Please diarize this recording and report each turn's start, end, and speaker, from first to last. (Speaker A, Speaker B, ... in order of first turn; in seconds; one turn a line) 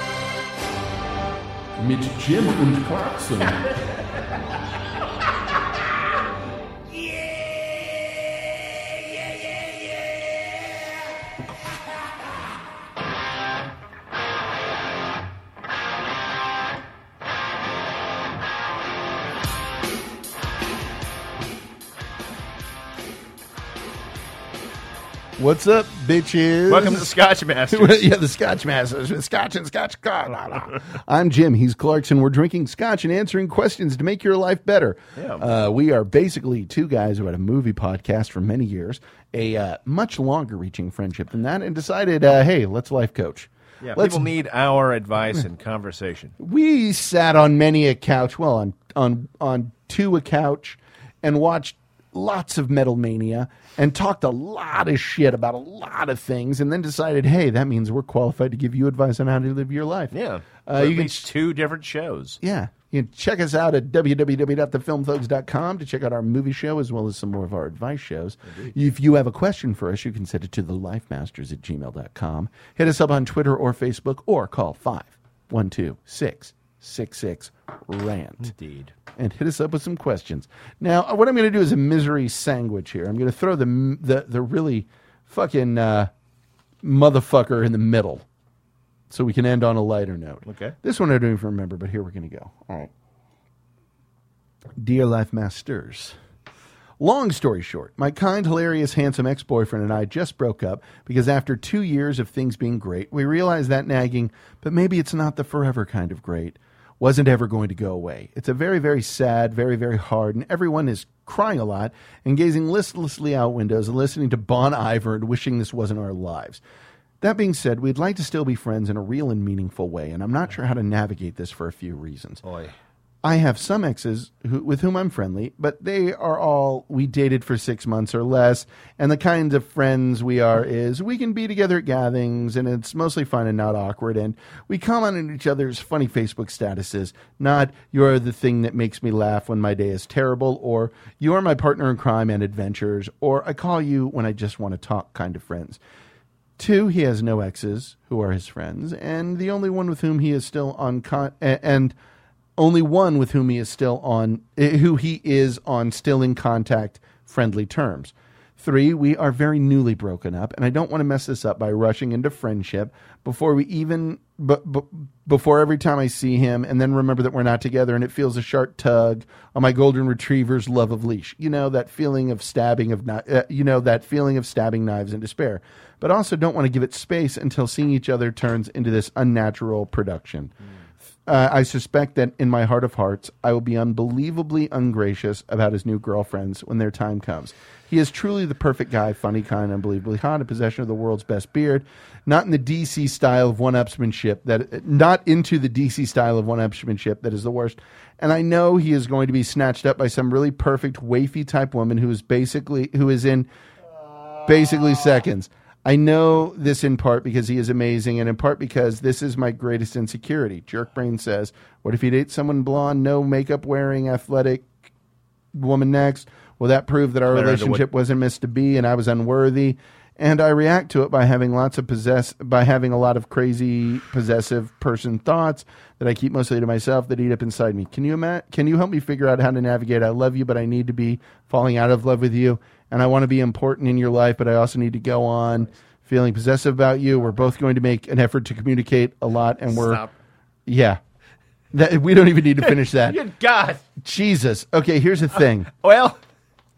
Speaker A: 1.8-3.8
Speaker A: 25.4-27.1
Speaker B: 26.7-28.1
Speaker A: 27.7-44.3
Speaker B: 35.1-35.4
Speaker B: 43.8-46.3
Speaker A: 46.4-60.1
Speaker B: 60.1-62.4
Speaker A: 60.6-61.3
Speaker A: 62.4-78.5
Speaker B: 68.5-68.7
Speaker B: 78.4-78.9
Speaker A: 79.1-86.1
Speaker A: 86.8-88.2
Speaker A: 89.1-92.9
Speaker B: 90.5-90.7
Speaker A: 94.8-96.2
Speaker A: 97.0-116.6
Speaker A: 117.2-122.4
Speaker B: 122.4-122.7
Speaker A: 123.2-145.8
Speaker A: 146.6-151.9
Speaker A: 152.6-180.5
Speaker A: 181.2-203.5
Speaker A: 204.4-214.7
Speaker A: 215.5-240.0
Speaker B: 217.3-217.8
Speaker B: 239.7-240.1
Speaker A: 240.7-241.0
Speaker A: 241.7-243.2
Speaker B: 242.9-243.8
Speaker A: 244.0-245.7
Speaker B: 245.7-246.2